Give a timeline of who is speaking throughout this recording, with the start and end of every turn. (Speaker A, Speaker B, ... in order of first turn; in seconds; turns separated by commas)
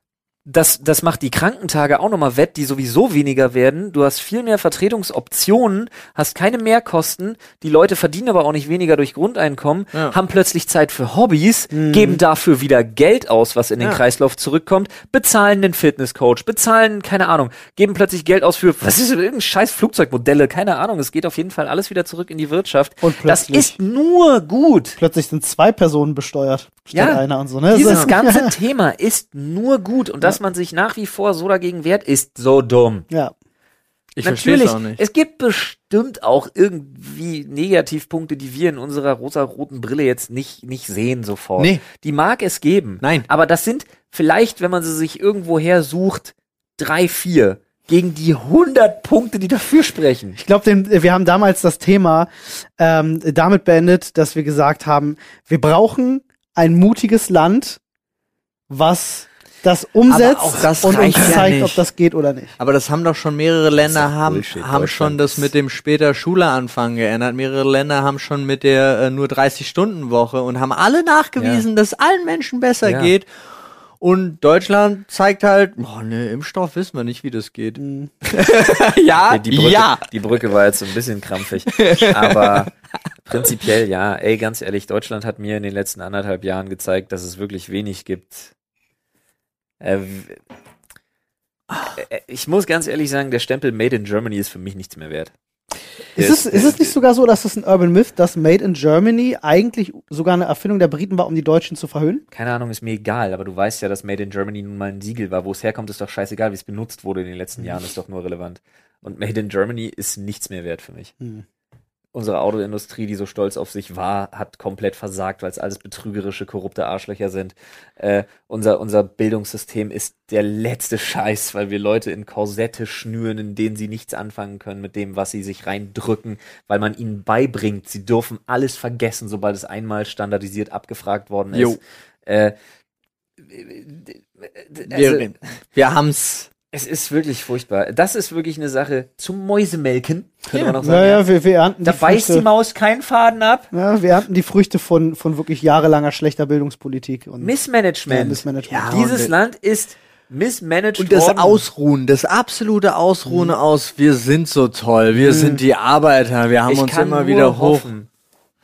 Speaker A: 0.5-25.0, Speaker B: 11.7-12.2, Speaker B: 23.0-23.7, Speaker B: 25.0-28.5, Speaker A: 26.9-33.1, Speaker C: 27.8-28.1, Speaker C: 34.2-35.0, Speaker A: 34.2-50.4, Speaker C: 41.6-41.8, Speaker C: 43.0-43.3, Speaker B: 50.4-57.8, Speaker B: 58.7-62.6, Speaker C: 60.1-61.8, Speaker A: 60.4-61.5, Speaker C: 62.6-73.3, Speaker A: 63.8-65.5, Speaker A: 71.4-71.6, Speaker A: 72.8-73.1, Speaker C: 74.0-80.0, Speaker B: 77.8-78.1, Speaker A: 79.2-82.7, Speaker C: 81.7-82.7, Speaker A: 83.2-88.5, Speaker A: 89.8-90.4, Speaker A: 92.0-95.3, Speaker A: 96.1-97.0, Speaker B: 96.2-102.2, Speaker A: 102.3-111.1, Speaker A: 112.1-132.6, Speaker C: 131.5-131.8, Speaker A: 133.5-135.3, Speaker C: 134.9-136.5, Speaker A: 136.7-141.2, Speaker C: 140.5-140.8, Speaker B: 140.8-142.4, Speaker A: 141.8-143.7, Speaker B: 143.7-147.5, Speaker A: 147.4-151.6, Speaker B: 148.1-149.0, Speaker C: 148.7-149.3, Speaker C: 151.0-157.9, Speaker B: 153.3-153.5, Speaker B: 155.1-155.6, Speaker A: 156.7-158.1